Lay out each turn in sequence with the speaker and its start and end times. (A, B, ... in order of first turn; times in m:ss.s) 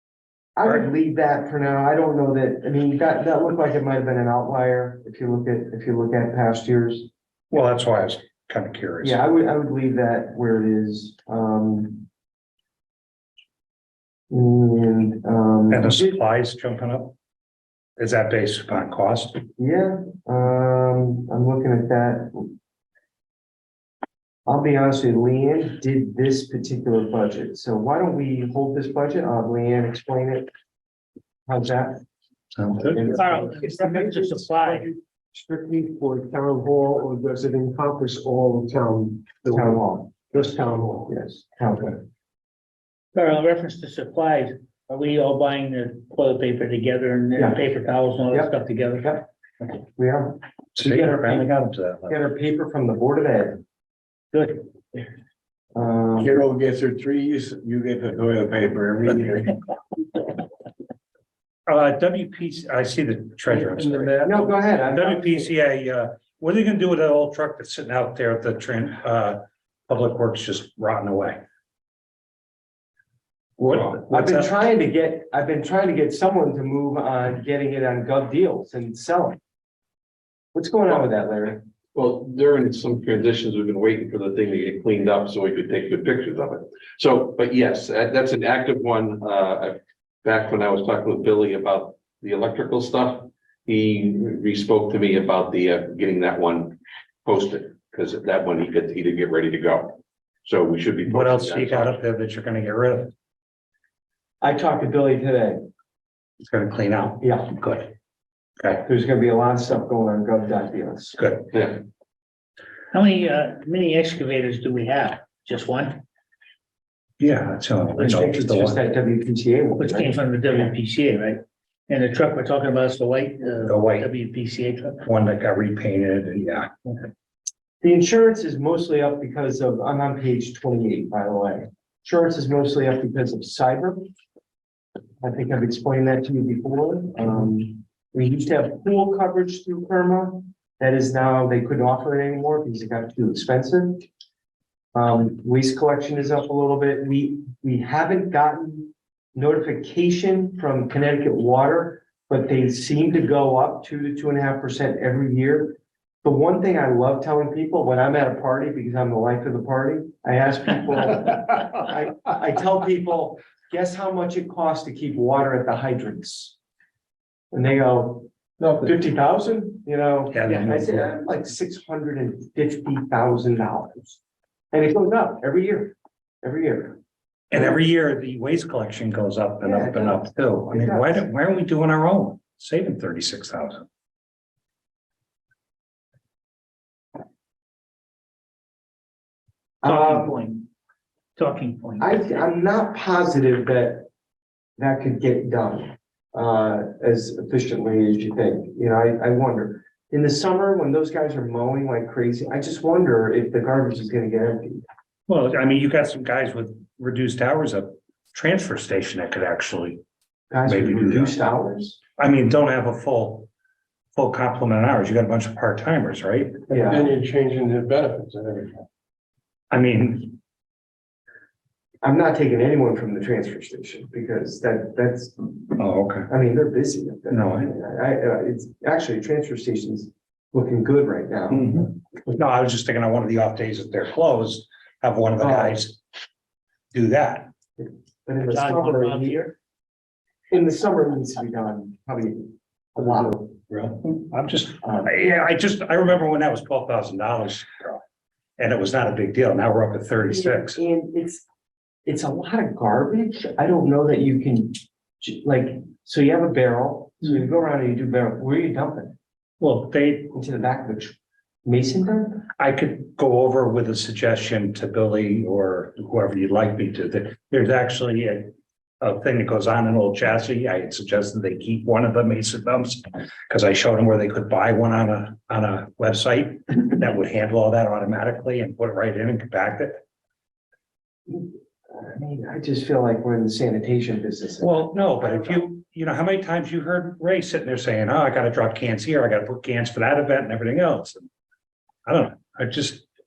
0:00.6-0:07.1 A
0:07.5-0:09.2 B
0:09.0-0:12.1 A
0:14.3-0:16.1 A
0:15.7-0:17.2 B
0:18.0-0:19.4 B
0:19.6-0:22.5 A
0:24.5-0:30.5 A
0:31.5-0:32.0 A
0:32.6-0:33.0 B
0:32.9-0:34.8 A
0:33.1-0:34.9 C
0:35.4-0:41.1 D
0:39.5-0:40.3 A
0:41.1-0:42.0 A
0:43.2-0:49.1 C
0:47.4-0:47.7 A
0:48.3-0:51.5 A
0:50.8-0:52.2 B
0:52.1-0:53.6 A
0:54.3-0:54.7 C
0:55.8-0:56.4 A
0:56.2-0:59.5 D
1:01.7-1:04.3 B
1:03.6-1:04.4 D
1:04.2-1:05.5 A
1:04.9-1:11.4 B
1:13.6-1:14.5 B
1:13.6-1:19.4 A
1:20.5-1:21.6 A
1:22.0-1:42.0 E
1:41.1-1:43.1 B
1:44.4-1:45.6 A
1:46.4-1:47.9 B
1:47.2-1:47.6 A
1:48.6-1:48.8 B
1:48.8-1:51.2 A
1:51.1-1:51.5 B
1:52.9-1:56.0 C
1:57.2-1:58.8 B
1:57.9-2:00.7 A
1:59.8-2:05.0 C
2:03.6-2:04.1 B
2:05.0-2:06.7 B
2:07.8-2:14.1 A
2:15.2-2:24.1 A
2:25.0-2:46.6 A
2:47.5-2:48.3 A
2:48.6-2:48.9 D
2:48.8-2:54.2 A
2:50.3-2:51.1 B
2:54.7-2:57.0 A
2:57.5-3:03.8 B
2:59.6-3:01.3 A
3:09.8-3:10.4 A
3:09.8-3:10.7 C
3:11.4-3:12.2 C
3:12.0-3:14.1 A
3:14.8-3:24.8 A
3:25.3-3:30.0 B
3:30.5-3:32.0 A
3:30.7-3:31.4 B
3:32.2-3:33.5 B
3:34.2-3:36.6 B
3:36.7-3:37.1 A
3:36.7-3:38.8 D
3:39.7-3:40.4 B
3:42.0-3:45.7 A
3:45.8-3:46.3 B
3:46.3-3:52.0 A
3:47.3-3:47.7 B
3:51.5-3:56.0 B
3:55.4-3:55.8 A
3:56.9-3:57.5 B
3:57.8-3:59.4 A
3:58.5-3:59.5 C
4:00.5-4:03.5 A
4:03.4-4:08.0 B
4:04.8-4:05.1 A
4:08.6-4:10.8 B
4:10.3-4:11.5 A
4:12.1-4:19.2 A
4:19.6-4:20.3 B
4:20.3-4:22.5 A
4:22.6-4:40.0 B
4:41.3-4:45.6 A
4:44.6-4:51.3 B
4:52.1-4:53.0 B